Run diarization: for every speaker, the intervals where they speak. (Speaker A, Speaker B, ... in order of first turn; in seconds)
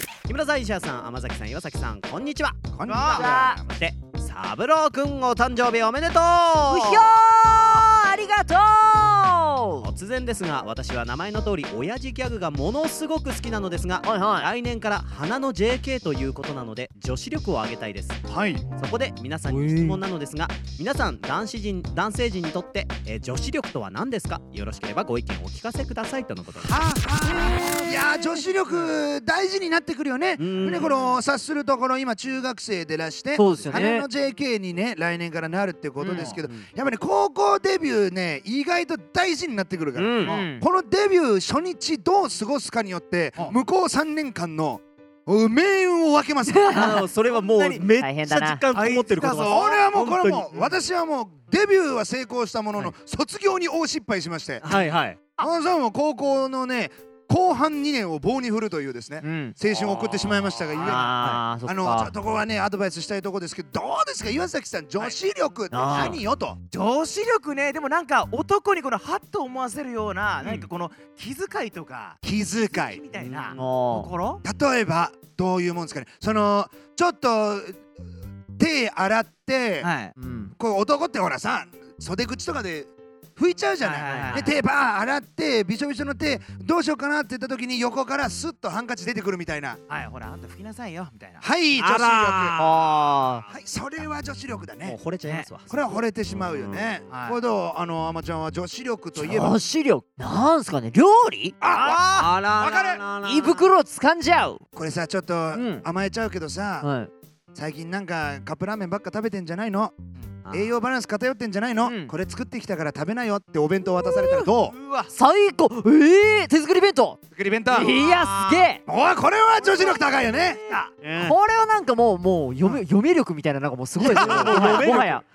Speaker A: 0.3-2.7, 3.2-7.2, 9.8-18.2, 18.8-26.7, 30.4-31.2, 33.5-33.8, 40.0-40.3, 46.7-50.5, 54.6-55.2, 59.7-61.4, 70.4-70.7, 73.1-73.6, 84.0-84.4, 91.8-93.6, 94.8-97.0, 101.8-103.7, 110.5-110.7, 117.8-118.6, 121.0-121.4, 124.1-125.2
Speaker B: 2.7-3.7, 18.3-18.6, 26.6-46.8, 49.4-54.8, 55.4-66.6, 72.2-73.0, 74.4-77.8, 78.6-79.9, 80.6-89.8, 91.4-92.6, 93.5-95.0, 95.7-99.6, 101.6-102.0, 102.5-103.0, 104.8-106.9, 107.5-110.0, 110.5-114.8, 117.3-118.0, 118.9-120.6, 124.0-125.0
Speaker C: 2.9-3.3, 27.5-27.8, 36.1-36.4, 47.3-47.9, 48.7-49.9, 66.7-74.4, 79.8-80.1, 83.8-84.5, 89.9-91.5, 97.1-97.4, 101.7-102.3, 114.7-115.1, 119.6-120.0, 124.1-125.1
Speaker D: 3.1-3.6, 6.7-9.9, 14.0-14.5, 19.5-20.0, 27.2-28.2, 33.4-34.1, 36.0-36.3, 40.2-40.6, 46.5-47.0, 48.0-48.6, 59.2-59.5, 60.7-62.1, 65.7-66.2, 73.5-74.1, 80.2-80.5, 92.6-93.4, 99.2-101.6, 103.2-104.6, 105.5-105.8, 106.8-107.1, 111.8-112.1, 114.0-114.5, 115.1-118.8, 121.2-125.2